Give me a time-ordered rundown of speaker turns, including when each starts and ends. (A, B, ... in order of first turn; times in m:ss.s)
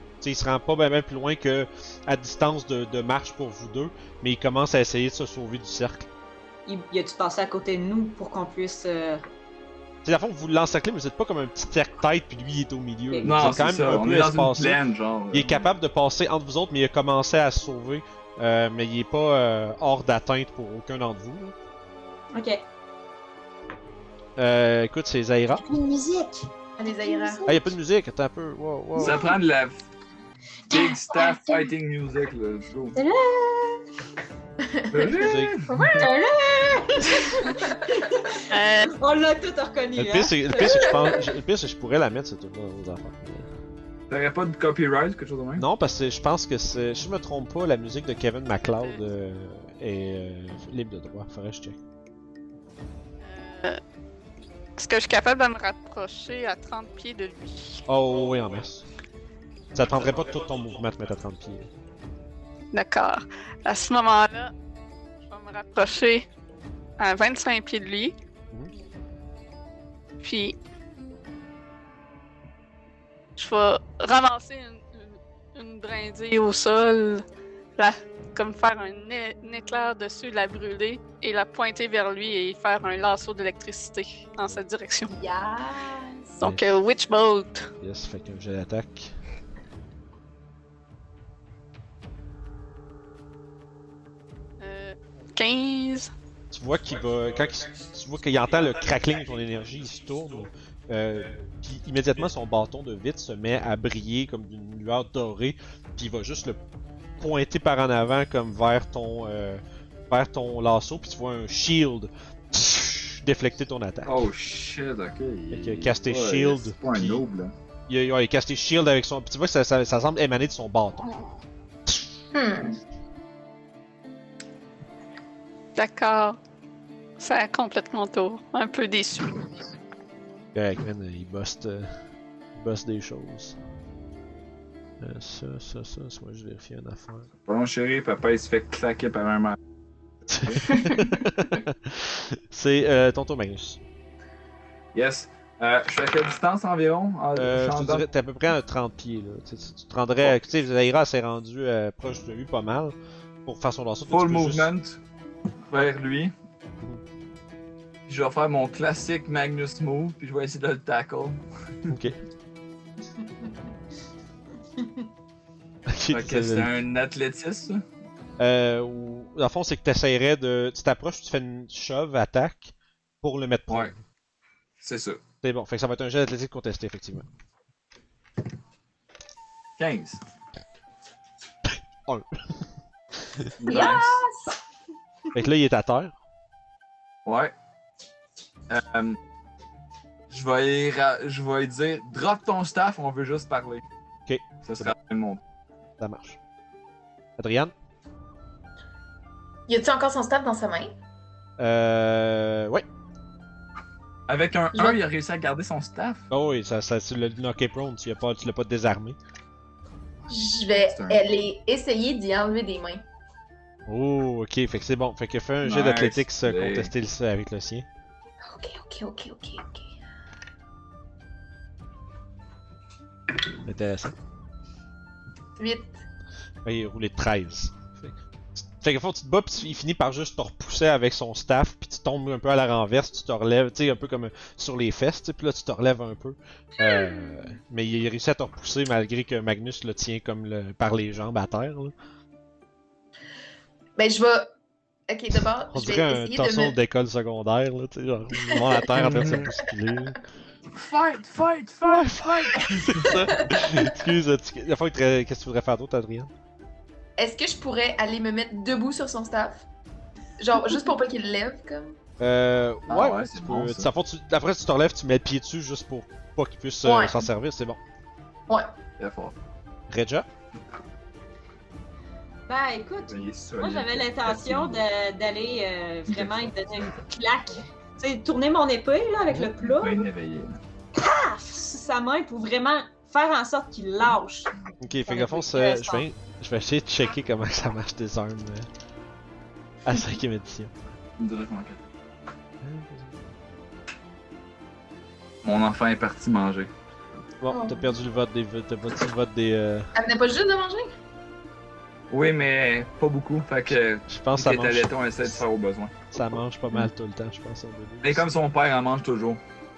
0:00.2-0:06.1 A
0:06.7-0:09.2 B
0:10.0-0:21.5 A
0:13.1-0:13.4 B
0:13.2-0:15.6 C
0:22.3-0:22.6 B
0:24.4-0:25.6 A
0:25.5-0:27.7 B
0:26.8-0:27.4 D
0:27.5-0:29.3 A
0:29.0-0:29.8 C
0:30.7-0:31.7 B
0:30.7-0:33.0 C
0:33.0-0:33.9 B
0:34.6-0:35.2 D
0:34.9-0:36.1 C
0:35.1-0:35.6 A
0:35.7-0:41.2 B
0:35.8-0:36.1 D
0:38.5-0:38.9 E
0:40.0-0:43.5 A
0:44.1-0:45.6 C
0:45.6-0:51.8 A
0:53.2-0:53.8 E
0:54.8-0:57.8 E
0:57.9-0:58.8 A
0:59.7-1:01.7 A
1:02.7-1:04.5 E
1:05.3-1:06.2 E
1:07.0-1:08.1 E
1:10.2-1:10.6 E
1:13.4-1:17.2 E
1:17.8-1:25.2 E
1:25.1-1:26.4 D
1:26.4-1:27.7 E
1:26.4-1:26.7 A
1:27.8-1:29.2 A
1:34.6-1:36.1 E
1:36.5-1:46.6 A
1:47.2-1:54.3 A
1:54.0-1:57.5 C
1:55.5-1:57.2 A
1:57.9-2:01.2 A
2:02.3-2:02.8 D
2:05.8-2:06.4 E
2:07.2-2:09.5 E
2:10.5-2:12.0 A
2:12.6-2:13.6 A
2:15.0-2:17.3 A
2:17.5-2:19.6 C
2:20.3-2:23.8 A
2:24.9-2:28.0 C
2:27.4-2:33.0 A
2:33.5-2:34.7 A
2:34.1-2:35.0 C
2:35.7-2:36.3 C
2:38.1-2:42.0 C
2:41.9-2:42.2 A
2:44.8-2:45.0 B
2:45.9-2:46.7 A
2:46.1-2:47.8 C
2:48.4-2:54.0 A
2:54.8-2:55.2 C
2:55.4-2:57.3 A
2:59.8-3:00.2 C
3:02.1-3:02.4 A
3:03.6-3:04.2 C
3:03.7-3:04.6 D
3:05.3-3:06.1 A
3:07.2-3:07.5 C
3:08.7-3:09.2 C
3:10.3-3:13.8 C
3:14.3-3:14.9 A
3:14.6-3:15.4 C
3:16.0-3:16.4 A
3:17.4-3:17.7 A
3:19.7-3:20.9 D
3:21.6-3:22.8 A
3:24.3-3:26.2 C
3:24.7-3:25.0 D
3:26.3-3:29.2 A
3:30.3-3:33.0 D
3:30.7-3:31.2 C
3:33.9-3:37.9 A
3:35.6-3:36.9 C
3:38.4-3:39.9 D
3:43.6-3:44.2 A
3:45.6-3:46.0 D
3:46.6-4:01.9 A
4:04.0-4:04.5 D
4:05.1-4:06.8 D
4:05.7-4:10.2 A
4:08.4-4:08.7 D
4:09.0-4:09.5 C
4:10.8-4:12.1 C
4:11.8-4:16.3 A
4:13.2-4:13.5 D
4:17.2-4:19.7 D
4:20.4-4:22.0 D
4:22.2-4:27.8 A
4:22.9-4:23.9 C
4:26.8-4:27.3 D
4:29.0-4:29.3 C
4:29.9-4:30.3 A
4:32.5-4:40.1 B
4:33.1-4:34.8 C
4:36.1-4:36.9 C
4:39.6-4:40.6 C
4:41.0-4:44.5 B
4:44.8-4:48.7 A
4:45.0-4:46.1 B
4:49.8-4:50.7 A
4:51.2-4:51.8 C
4:52.6-4:53.2 A
4:55.4-4:56.7 C
4:57.4-4:59.9 A
4:57.5-4:57.9 D
5:00.0-5:00.9 D
5:02.1-5:05.9 C
5:04.1-5:05.4 A
5:06.1-5:08.3 A
5:08.0-5:09.4 C